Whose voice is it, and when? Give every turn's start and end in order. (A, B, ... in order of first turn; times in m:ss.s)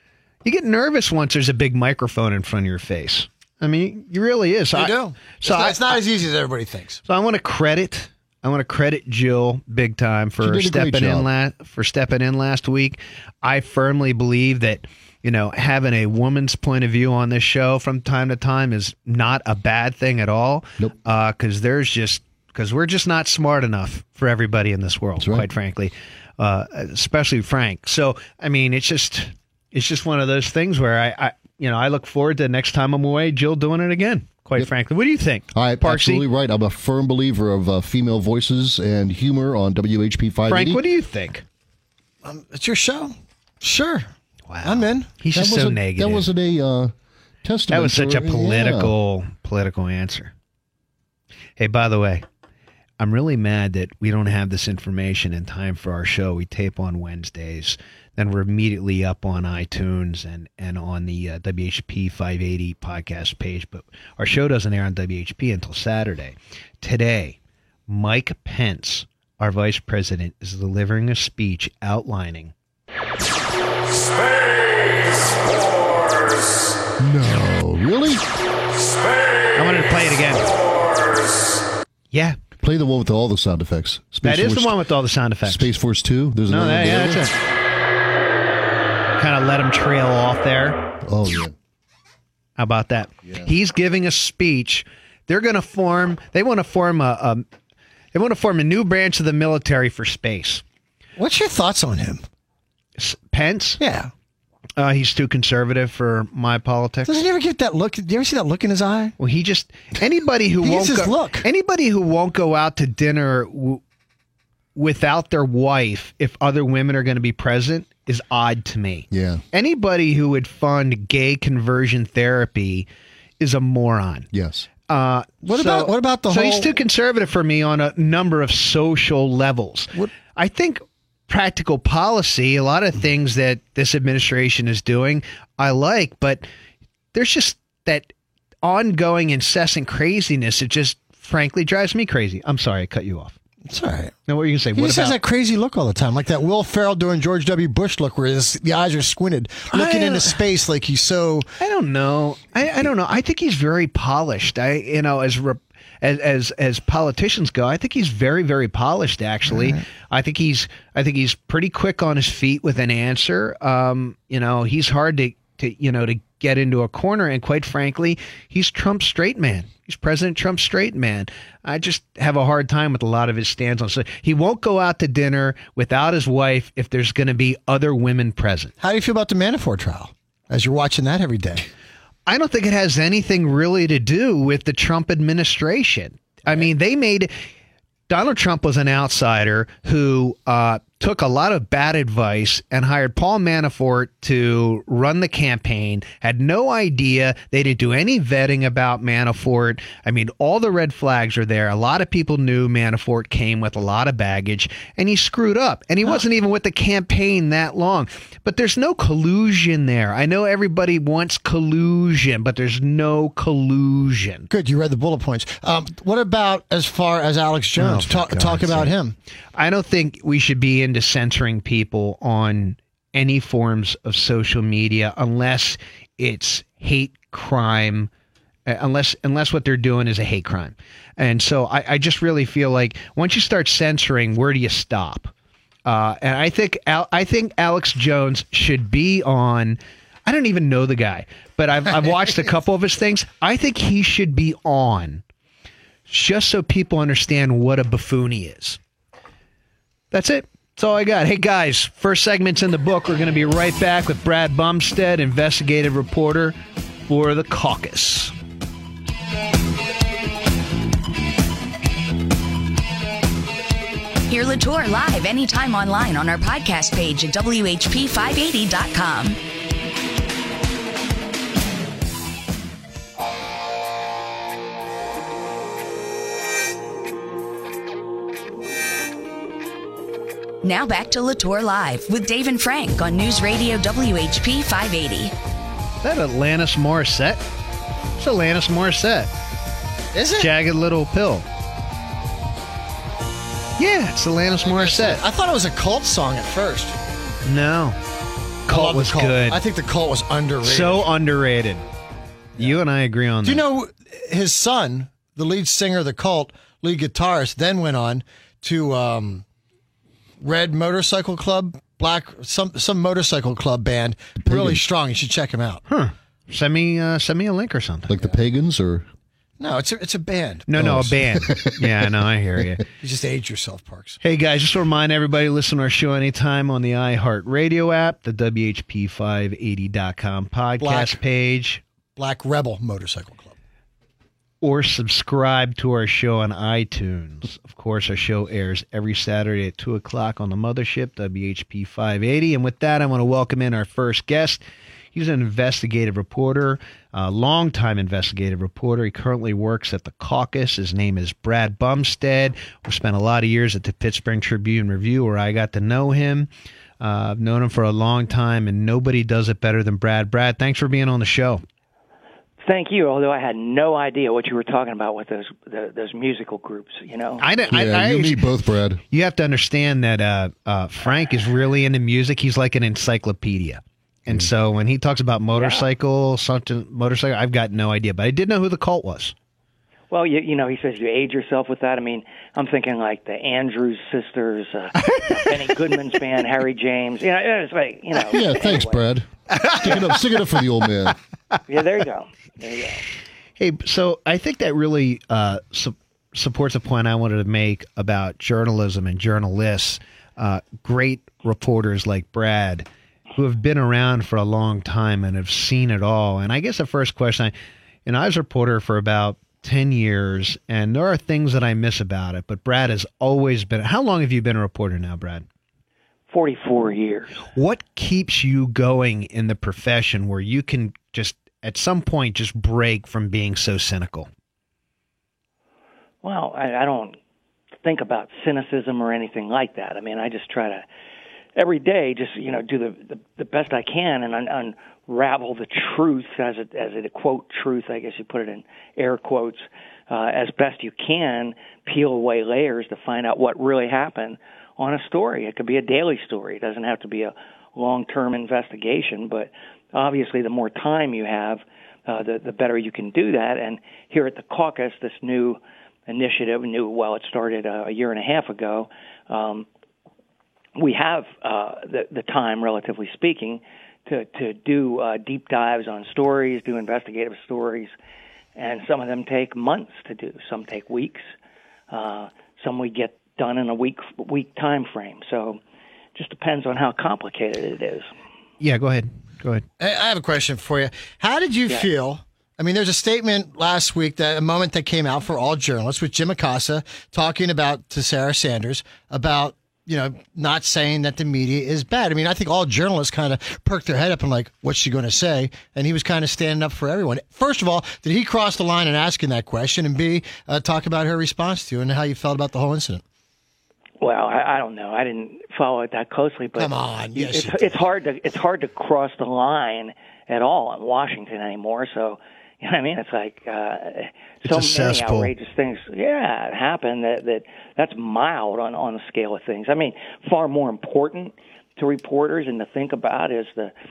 0:00.4-0:06.0 A
0:04.7-0:07.0 B
0:07.1-0:36.2 A
0:10.4-0:11.3 C
0:25.2-0:25.5 C
0:35.5-0:40.8 C
0:40.5-0:41.4 A
0:42.2-0:44.1 B
0:44.5-0:46.3 A
0:44.6-0:45.1 B
0:45.3-0:48.9 C
0:47.7-0:50.3 A
0:51.6-0:52.2 A
0:53.0-1:12.5 A
1:17.0-1:18.2 C
1:19.6-1:20.5 A
1:22.1-1:22.4 A
1:22.6-1:24.8 C
1:24.2-1:25.7 A
1:25.4-1:27.3 C
1:26.5-1:27.3 A
1:29.2-1:30.8 A
1:31.0-1:31.5 C
1:32.6-1:37.4 A
1:38.1-1:40.6 A
1:41.2-1:42.2 B
1:43.0-1:43.8 A
1:43.8-1:44.1 B
1:44.8-1:47.1 A
1:47.0-1:49.1 B
1:49.2-1:53.8 A
1:50.6-1:51.4 B
1:54.8-2:02.9 A
1:59.1-1:59.4 C
2:03.4-2:04.3 A
2:04.3-2:04.7 C
2:04.9-2:16.4 A
2:05.4-2:06.7 B
2:17.1-2:18.1 A
2:18.6-2:23.3 A
2:23.7-2:24.1 B
2:24.3-2:25.2 A
2:24.8-2:31.5 B
2:29.7-2:30.4 A
2:31.6-2:58.7 A
2:39.5-2:39.8 B
2:58.8-3:01.7 B
3:02.3-3:07.3 A
3:08.1-3:34.5 A
3:34.5-3:39.2 B
3:37.8-3:38.9 A
3:39.6-3:48.1 A
3:48.6-3:55.3 A
3:55.8-4:05.2 A
4:06.1-4:08.8 A
4:10.1-4:16.6 A
4:17.1-4:18.3 A
4:24.3-4:29.4 D
4:40.6-4:45.3 D
4:46.0-4:47.4 A
4:48.2-4:49.3 A
4:50.1-4:50.5 B
4:50.4-4:51.4 A
4:53.8-4:55.2 A
4:54.6-4:57.0 B
4:57.4-4:58.0 A
4:58.6-4:59.6 A
4:58.7-5:01.1 B
5:00.6-5:01.8 A
5:02.6-5:03.6 A
5:03.4-5:09.4 B
5:10.4-5:15.8 B
5:14.4-5:14.8 C
5:15.9-5:18.1 A
5:18.1-5:19.1 C
5:19.6-5:20.7 B
5:20.7-5:22.8 A
5:20.8-5:22.7 C
5:23.0-5:24.2 B
5:24.2-5:31.8 A
5:30.8-5:31.2 B
5:32.2-5:33.5 B
5:34.6-5:44.6 A
5:45.1-5:56.5 A
5:57.0-6:01.6 A
6:02.6-6:07.4 E
6:07.4-6:08.4 A
6:07.7-6:09.0 C
6:09.1-6:19.3 A
6:15.6-6:15.8 E
6:20.1-6:29.0 E
6:25.0-6:25.5 A
6:28.3-6:29.3 C
6:29.5-6:30.2 A
6:29.8-6:31.2 C
6:31.7-6:33.0 E
6:33.6-6:47.5 A
6:48.0-6:55.4 A
6:56.3-6:57.4 E
6:57.5-7:04.3 A
7:06.2-7:07.2 E
7:07.8-7:10.8 E
7:11.5-7:39.7 E
7:40.8-7:47.9 E
7:48.6-7:51.3 E
7:51.9-7:55.6 E
7:56.1-7:58.1 E
7:58.6-7:59.6 A
7:59.8-8:23.0 B
8:24.0-8:43.7 E
8:26.6-8:27.8 B
8:34.4-8:35.3 A